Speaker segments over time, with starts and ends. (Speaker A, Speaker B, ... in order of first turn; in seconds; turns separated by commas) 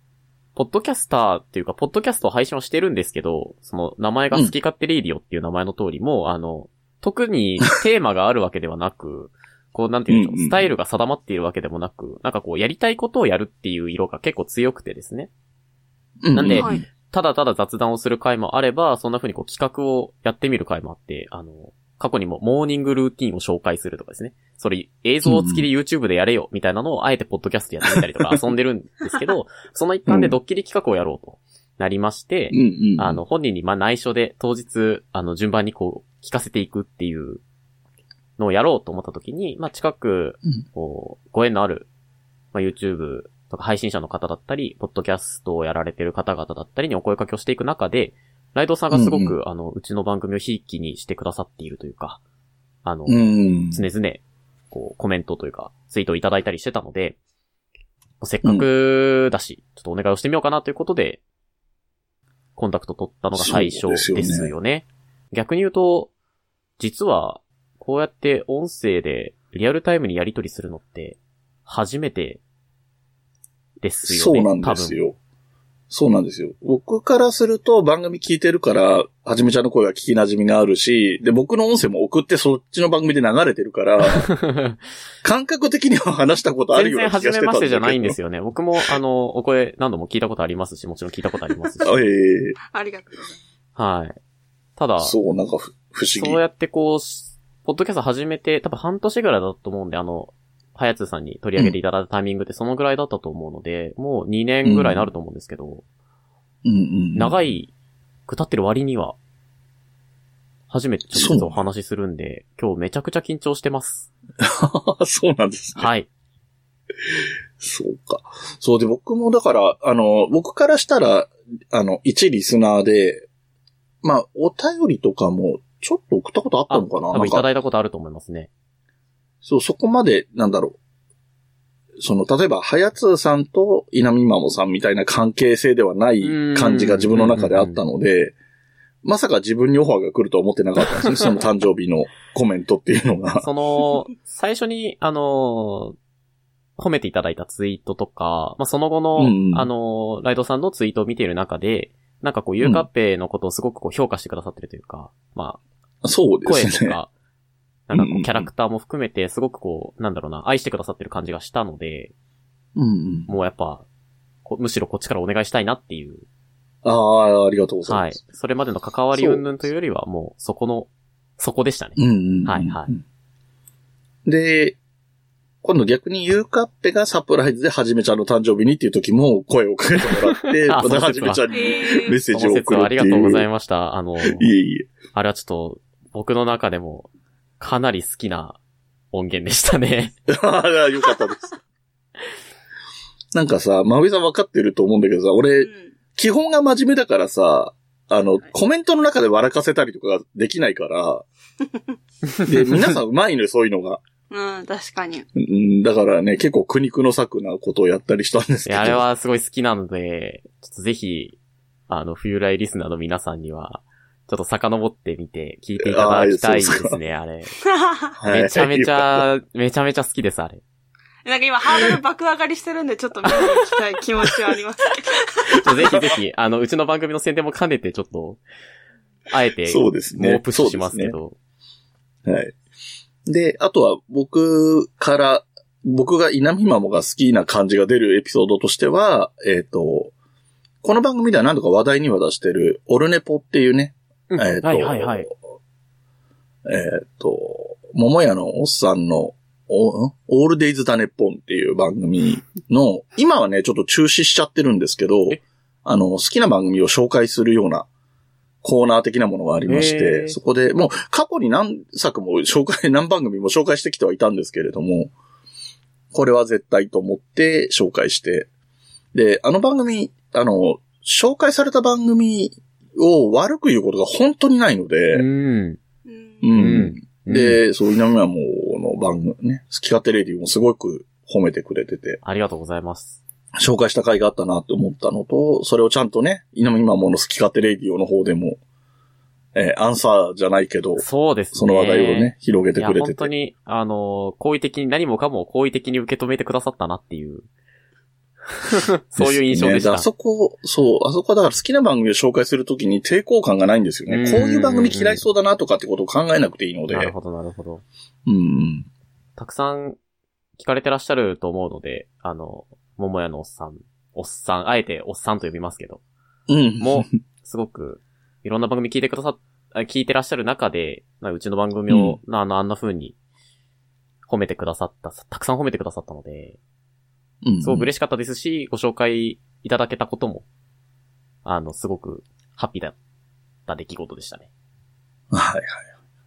Speaker A: 0.6-15.3, Speaker B: 10.1-10.7, Speaker B: 16.2-16.8, Speaker A: 16.3-37.4, Speaker C: 16.5-16.8, Speaker B: 25.2-25.6, Speaker B: 30.1-30.4, Speaker B: 32.5-33.2, Speaker A: 38.4-41.9, Speaker A: 42.5-52.2, Speaker B: 48.9-49.3, Speaker A: 52.8-57.1, Speaker B: 53.1-53.8, Speaker A: 58.2-61.2, Speaker A: 62.5-66.1, Speaker B: 63.3-64.5, Speaker A: 66.8-72.4, Speaker A: 73.8-75.0, Speaker B: 74.0-75.2, Speaker B: 75.9-84.3, Speaker A: 84.0-84.8, Speaker B: 85.2-88.2, Speaker A: 86.7-92.0, Speaker B: 91.8-92.6, Speaker C: 92.7-93.4, Speaker A: 93.8-94.2, Speaker A: 94.8-95.1, Speaker B: 95.0-96.4, Speaker A: 96.1-105.8, Speaker B: 104.6-105.1, Speaker B: 106.6-107.3, Speaker A: 107.2-107.7, Speaker A: 108.3-109.2, Speaker A: 110.7-114.1, Speaker B: 111.1-111.6, Speaker B: 114.4-115.9, Speaker A: 115.8-116.1, Speaker B: 117.6-123.3, Speaker B: 124.0-127.5, Speaker A: 126.7-128.5, Speaker B: 129.4-130.8, Speaker B: 132.0-138.3, Speaker A: 136.2-137.8, Speaker B: 139.0-143.5, Speaker A: 140.9-141.3, Speaker A: 143.4-145.9, Speaker A: 146.8-155.6, Speaker B: 149.2-149.7, Speaker B: 152.6-152.9, Speaker B: 156.0-156.9, Speaker A: 156.4-157.1, Speaker A: 157.9-162.1, Speaker B: 157.9-158.5, Speaker B: 162.8-163.3, Speaker A: 163.3-163.8, Speaker A: 164.4-166.2, Speaker B: 166.8-168.1, Speaker A: 167.9-172.9, Speaker B: 169.1-169.4, Speaker B: 172.0-173.0, Speaker B: 174.2-174.8, Speaker B: 175.6-183.4, Speaker A: 180.6-181.4, Speaker C: 181.5-182.2, Speaker A: 182.3-184.5, Speaker B: 184.2-184.9, Speaker A: 185.1-187.1, Speaker A: 187.6-188.6, Speaker A: 189.1-190.1, Speaker B: 190.3-191.5, Speaker B: 193.3-201.2, Speaker C: 195.6-195.9, Speaker B: 202.4-204.0, Speaker C: 204.3-205.3, Speaker B: 205.3-209.0, Speaker A: 208.7-211.4, Speaker A: 211.9-217.5, Speaker B: 215.8-217.0, Speaker C: 217.8-218.1, Speaker B: 218.2-219.3, Speaker A: 218.3-220.6, Speaker C: 221.2-225.6, Speaker A: 225.6-228.4, Speaker B: 225.8-226.1, Speaker A: 229.3-231.3, Speaker B: 229.7-231.1, Speaker B: 232.2-232.6, Speaker B: 233.2-240.1, Speaker B: 240.8-245.3, Speaker A: 244.3-245.3, Speaker B: 246.7-257.9, Speaker B: 258.6-265.1, Speaker A: 259.7-260.4, Speaker B: 266.1-268.5, Speaker B: 269.1-275.2, Speaker A: 275.1-275.8, Speaker C: 276.1-276.5, Speaker B: 276.4-282.2, Speaker A: 276.5-277.6, Speaker A: 282.2-283.2, Speaker B: 283.6-288.6, Speaker B: 289.5-293.3, Speaker A: 291.0-297.4, Speaker A: 298.6-300.1, Speaker B: 299.2-307.1, Speaker A: 304.1-305.2, Speaker A: 306.9-307.8, Speaker B: 308.2-308.9, Speaker A: 309.4-310.0, Speaker A: 310.6-316.0, Speaker B: 316.5-317.1, Speaker A: 316.8-323.1, Speaker B: 321.9-322.2, Speaker A: 324.3-326.6, Speaker B: 327.4-327.9, Speaker A: 327.6-330.4, Speaker A: 331.4-332.9, Speaker A: 333.7-334.5, Speaker B: 335.3-335.9